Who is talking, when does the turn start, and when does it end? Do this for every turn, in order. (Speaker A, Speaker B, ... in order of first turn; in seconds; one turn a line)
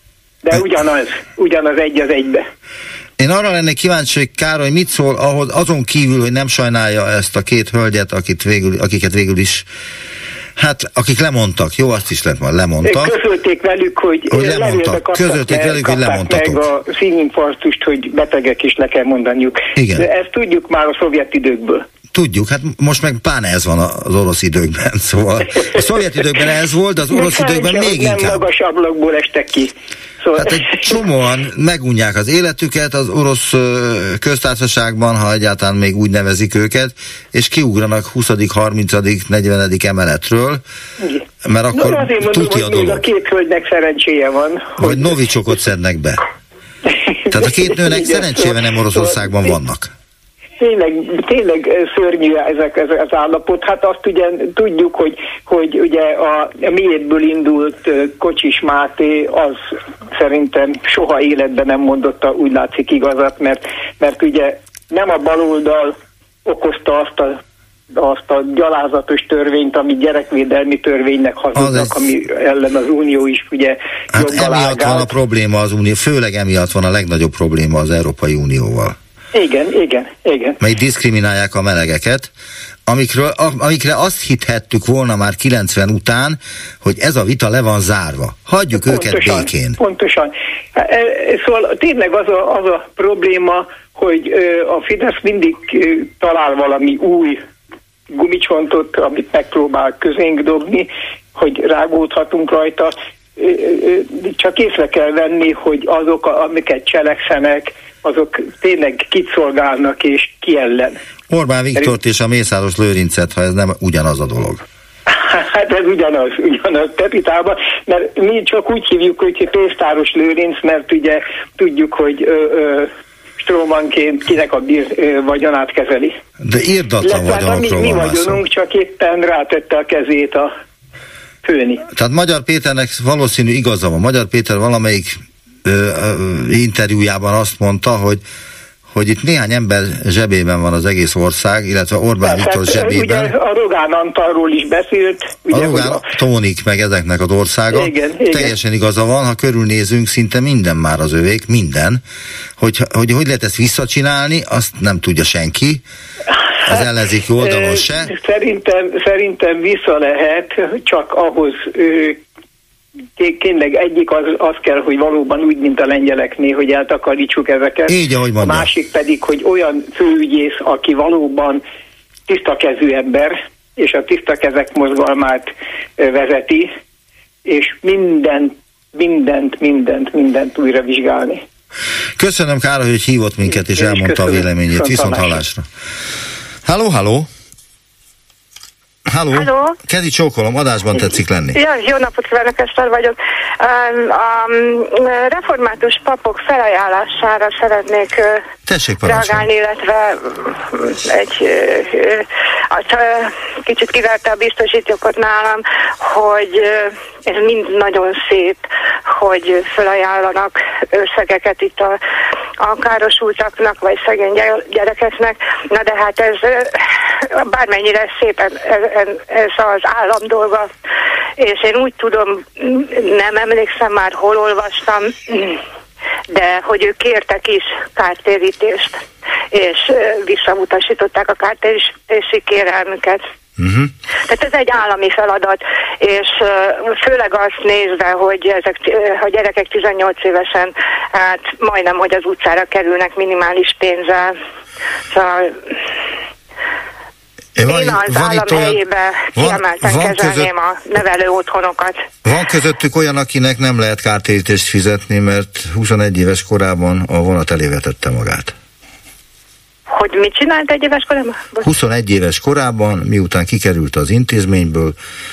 Speaker A: 0.4-2.4
Speaker B: 3.2-9.7
Speaker B: 10.6-13.2
Speaker A: 12.8-21.8
Speaker B: 14.3-16.6
Speaker B: 19.8-20.1
Speaker B: 22.1-28.4
Speaker A: 27.1-31.0
Speaker B: 30.4-40.6
Speaker A: 41.0-45.1
Speaker B: 41.4-43.0
Speaker B: 44.8-46.2
Speaker A: 47.3-49.5
Speaker B: 47.3-49.9
Speaker A: 50.6-59.6
Speaker A: 60.1-67.4
Speaker A: 67.9-75.1
Speaker B: 71.5-71.9
Speaker B: 74.1-79.0
Speaker A: 79.3-80.6
Speaker B: 80.6-82.3
Speaker B: 82.9-89.8
Speaker A: 88.7-97.4
Speaker A: 98.1-111.0
Speaker B: 111.3-114.6
Speaker A: 115.1-126.1
Speaker B: 126.4-128.4
Speaker A: 127.0-130.5
Speaker A: 131.4-131.8
Speaker B: 131.9-138.2
Speaker B: 138.9-143.3
Speaker A: 142.2-146.0
Speaker B: 145.5-152.0
Speaker A: 147.7-148.5
Speaker B: 152.6-155.8
Speaker B: 156.6-158.1
Speaker A: 157.4-162.2
Speaker A: 163.2-171.6
Speaker B: 167.9-168.7
Speaker A: 172.3-176.7
Speaker A: 177.4-181.4
Speaker B: 182.2-185.7
Speaker A: 183.5-185.4
Speaker B: 186.6-187.3
Speaker B: 189.1-191.6
Speaker C: 189.3-189.7
Speaker C: 191.5-198.4
Speaker B: 198.7-199.5
Speaker C: 199.0-212.0
Speaker C: 212.6-220.7
Speaker C: 221.4-225.6
Speaker C: 226.3-233.2
Speaker B: 233.6-233.9
Speaker C: 234.3-244.3
Speaker C: 245.1-245.8
Speaker B: 247.6-248.8
Speaker C: 247.6-252.1
Speaker B: 249.3-250.5
Speaker B: 252.2-258.5
Speaker C: 259.9-261.7
Speaker B: 261.6-265.0